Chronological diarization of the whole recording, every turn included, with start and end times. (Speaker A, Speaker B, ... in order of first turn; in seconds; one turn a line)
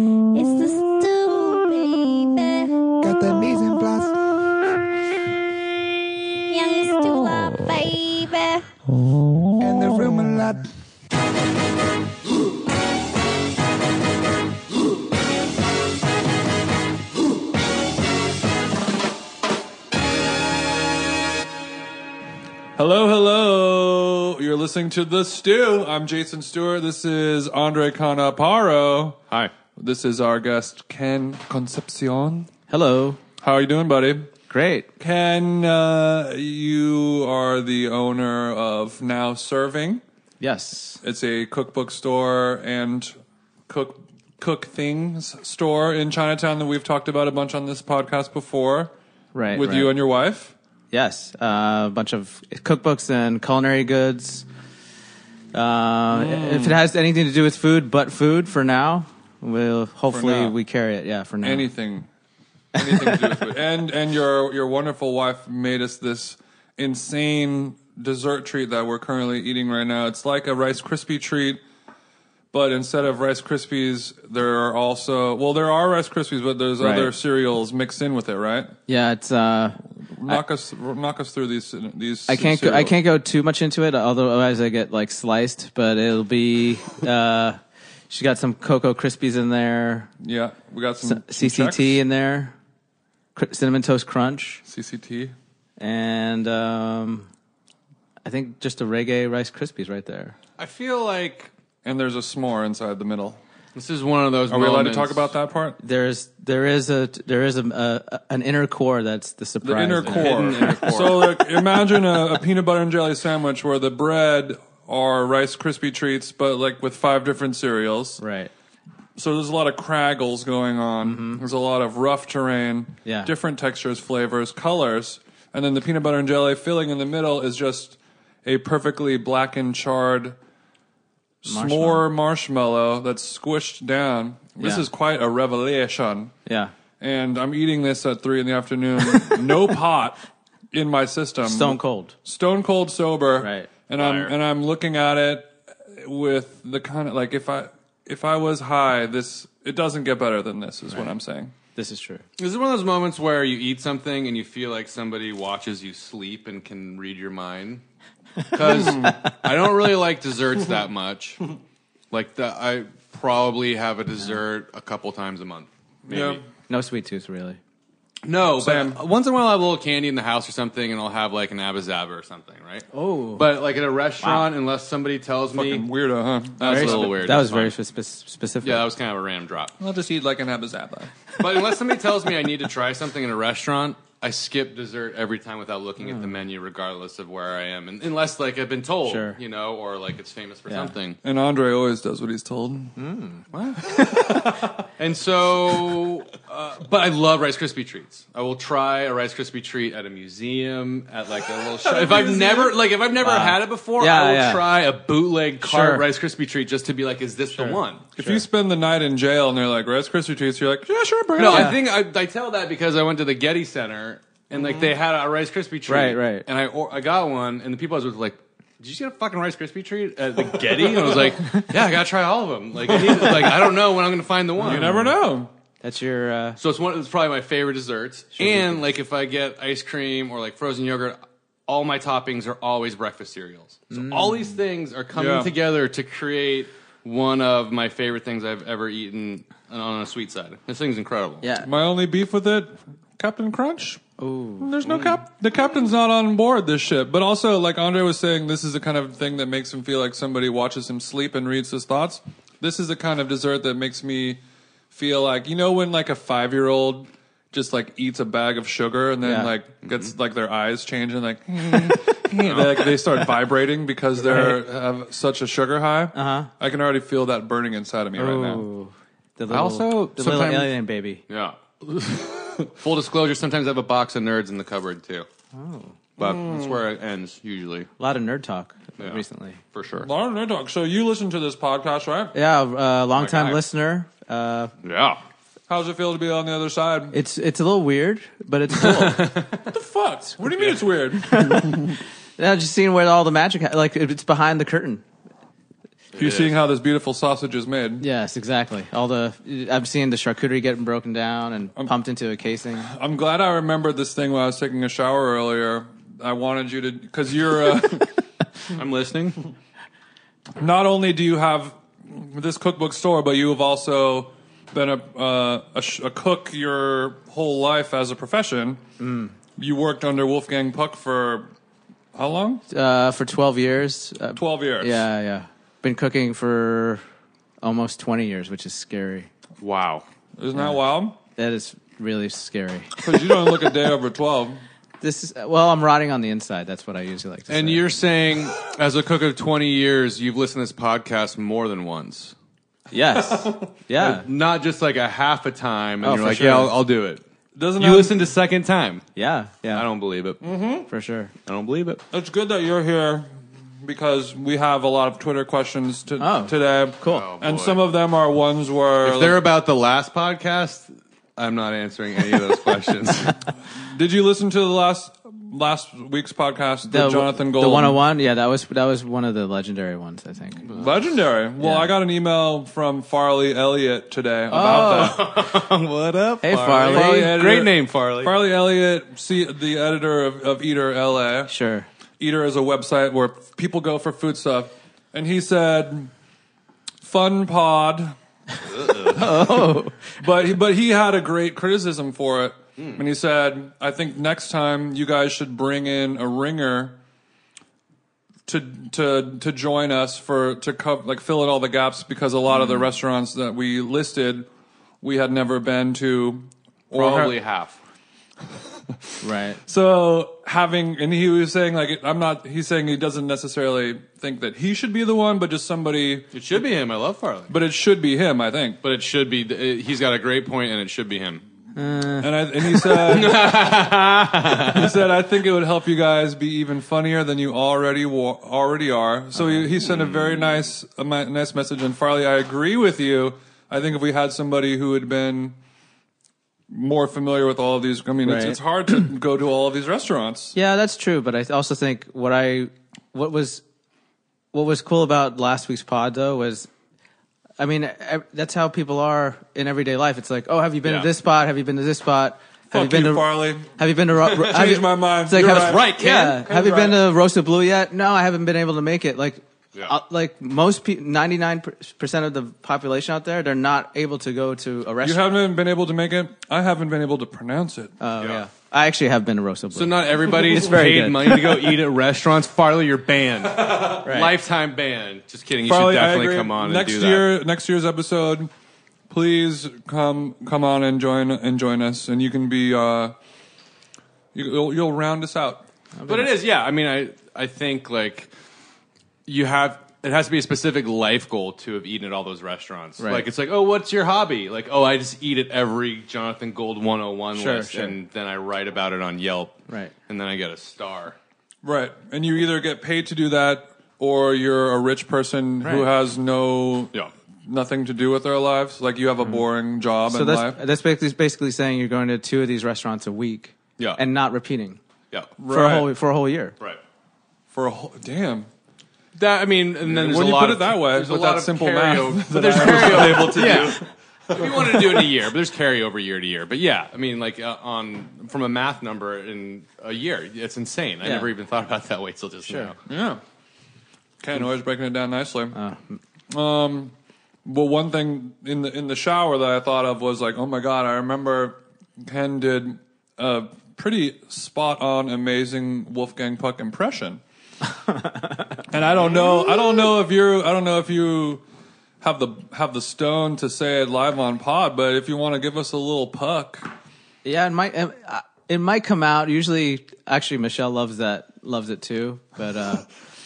Speaker A: 0.3-2.7
Speaker B: 3.0-4.2
Speaker A: 6.5-8.7
Speaker B: 9.6-10.7
Speaker C: 22.8-29.2
Speaker C: 29.8-32.5
Speaker D: 32.7-33.2
Speaker C: 33.4-34.3
Speaker D: 34.5-34.9
Speaker C: 35.0-40.0
Speaker D: 40.4-41.0
Speaker C: 41.0-43.1
Speaker C: 43.7-48.9
Speaker D: 49.3-49.9
Speaker C: 49.5-50.5
Speaker D: 50.9-54.5
Speaker D: 55.5-61.7
Speaker C: 56.1-56.8
Speaker C: 60.1-60.5
Speaker C: 61.4-62.1
Speaker C: 62.8-71.6
Speaker D: 62.8-63.3
Speaker C: 72.5-78.7
Speaker D: 76.8-77.1
Speaker D: 78.9-80.4
Speaker C: 80.1-83.0
Speaker D: 82.3-90.1
Speaker C: 90.2-92.0
Speaker D: 91.0-92.5
Speaker D: 93.3-94.6
Speaker C: 94.7-95.3
Speaker D: 95.8-97.3
Speaker D: 98.2-100.3
Speaker E: 100.6-101.5
Speaker C: 101.8-103.4
Speaker E: 103.8-105.3
Speaker C: 104.5-105.8
Speaker D: 105.8-110.9
Speaker C: 109.6-118.2
Speaker E: 110.0-111.5
Speaker D: 118.2-118.5
Speaker C: 119.2-130.4
Speaker D: 121.0-121.4
Speaker D: 123.0-123.3
Speaker C: 131.4-136.3
Speaker D: 131.4-132.1
Speaker D: 134.6-134.9
Speaker D: 136.5-136.7
Speaker C: 137.0-140.2
Speaker C: 140.7-151.5
Speaker D: 141.4-142.1
Speaker D: 143.4-143.7
Speaker E: 144.0-144.3
Speaker D: 151.8-152.2
Speaker E: 152.4-157.8
Speaker D: 158.5-159.4
Speaker E: 158.5-161.4
Speaker C: 158.6-159.2
Speaker E: 162.1-166.4
Speaker C: 166.1-166.4
Speaker D: 166.7-167.6
Speaker E: 168.2-175.9
Speaker C: 168.6-169.0
Speaker D: 172.9-173.4
Speaker C: 175.5-177.2
Speaker E: 176.6-177.7
Speaker D: 176.7-178.9
Speaker E: 178.6-179.7
Speaker C: 179.8-181.4
Speaker E: 181.4-191.2
Speaker D: 186.0-186.3
Speaker D: 189.1-189.4
Speaker C: 191.2-192.9
Speaker D: 193.0-193.4
Speaker E: 193.5-194.0
Speaker C: 193.9-194.8
Speaker E: 195.0-208.1
Speaker C: 201.5-202.8
Speaker D: 203.2-204.7
Speaker D: 205.6-206.1
Speaker D: 207.6-208.4
Speaker C: 208.2-211.7
Speaker E: 211.3-224.9
Speaker D: 211.5-211.8
Speaker C: 214.5-214.9
Speaker D: 215.9-216.5
Speaker C: 220.7-221.4
Speaker C: 222.9-223.5
Speaker D: 224.6-225.2
Speaker C: 224.6-225.5
Speaker D: 225.8-226.6
Speaker E: 226.6-241.5
Speaker D: 228.4-228.8
Speaker D: 233.9-234.4
Speaker C: 235.1-235.5
Speaker D: 241.4-241.7
Speaker C: 241.6-244.0
Speaker D: 244.2-245.0
Speaker C: 244.6-268.6
Speaker D: 259.2-259.5
Speaker E: 261.7-262.9
Speaker D: 264.2-264.6
Speaker D: 266.1-266.5
Speaker D: 268.2-271.2
Speaker E: 269.5-270.7
Speaker E: 271.3-275.3
Speaker D: 275.5-275.9
Speaker E: 276.2-277.9
Speaker C: 276.2-276.8
Speaker D: 278.0-279.6
Speaker E: 279.7-280.1
Speaker C: 280.0-282.3
Speaker D: 282.3-284.7
Speaker E: 283.2-283.6
Speaker E: 284.8-285.2
Speaker C: 285.7-287.1
Speaker D: 287.1-289.3
Speaker E: 288.8-289.7
Speaker C: 289.7-292.0
Speaker D: 291.2-295.0
Speaker E: 296.1-296.5
Speaker C: 296.2-298.0
Speaker D: 298.0-302.9
Speaker C: 302.8-308.2
Speaker E: 308.7-309.4
Speaker C: 310.6-318.8
Speaker D: 319.0-319.3
Speaker C: 319.6-321.5
Speaker C: 322.1-322.6
Speaker D: 322.7-327.0
Speaker C: 324.4-325.1
Speaker D: 327.6-329.3
Speaker E: 329.6-330.1
Speaker C: 330.4-331.2
Speaker D: 331.4-332.9
Speaker C: 333.0-334.6
Speaker D: 335.0-337.9
Speaker E: 337.5-342.4
Speaker D: 342.9-344.3
Speaker C: 343.1-344.2
Speaker E: 344.0-347.2
Speaker D: 346.0-346.7
Speaker C: 347.6-348.2
Speaker E: 347.8-349.0
Speaker D: 349.2-349.8
Speaker E: 349.7-350.4
Speaker C: 350.4-350.9
Speaker D: 350.9-351.3
Speaker E: 351.5-352.0
Speaker C: 352.1-359.4
Speaker D: 356.2-357.2
Speaker E: 357.1-357.8
Speaker E: 359.0-363.5
Speaker C: 363.7-368.0
Speaker D: 366.9-370.7
Speaker C: 370.7-375.3
Speaker D: 371.6-371.9
Speaker D: 374.5-375.5
Speaker E: 374.5-378.4
Speaker D: 376.4-377.4
Speaker C: 376.7-381.5
Speaker D: 381.5-381.9
Speaker C: 382.2-386.1
Speaker C: 387.0-388.2
Speaker E: 388.7-389.2
Speaker C: 389.0-397.0
Speaker D: 389.1-390.0
Speaker C: 398.5-404.5
Speaker D: 402.5-402.9
Speaker C: 405.0-407.4
Speaker E: 406.9-407.8
Speaker C: 408.6-416.3
Speaker D: 409.2-409.6
Speaker E: 416.3-417.6
Speaker C: 417.5-418.8
Speaker E: 418.8-421.4
Speaker D: 421.8-422.3
Speaker C: 422.2-423.8
Speaker E: 422.8-425.0
Speaker C: 424.7-435.6
Speaker E: 429.8-430.6
Speaker C: 436.7-440.6
Speaker D: 438.2-438.6
Speaker D: 440.6-443.6
Speaker D: 444.5-446.7
Speaker D: 447.6-465.2
Speaker C: 452.7-457.0
Speaker E: 455.3-456.4
Speaker C: 465.0-467.9
Speaker D: 468.0-471.6
Speaker E: 469.7-477.3
Speaker D: 474.0-474.3
Speaker C: 475.6-478.5
Speaker C: 479.1-483.1
Speaker C: 484.3-485.6
Speaker D: 486.0-486.3
Speaker E: 486.1-488.3
Speaker E: 489.3-501.2
Speaker D: 493.0-493.3
Speaker D: 497.4-498.0
Speaker C: 501.6-506.9
Speaker C: 507.5-510.6
Speaker D: 510.1-514.8
Speaker C: 515.4-515.9
Speaker D: 515.5-516.6
Speaker C: 517.5-518.5
Speaker E: 519.1-532.8
Speaker C: 519.8-525.1
Speaker D: 531.0-531.3
Speaker D: 532.5-532.7
Speaker C: 532.9-533.2
Speaker C: 534.2-535.6
Speaker D: 535.5-536.0
Speaker C: 536.3-536.9
Speaker C: 537.5-547.2
Speaker D: 547.9-548.5
Speaker C: 548.7-551.4
Speaker C: 552.0-556.7
Speaker D: 557.2-562.9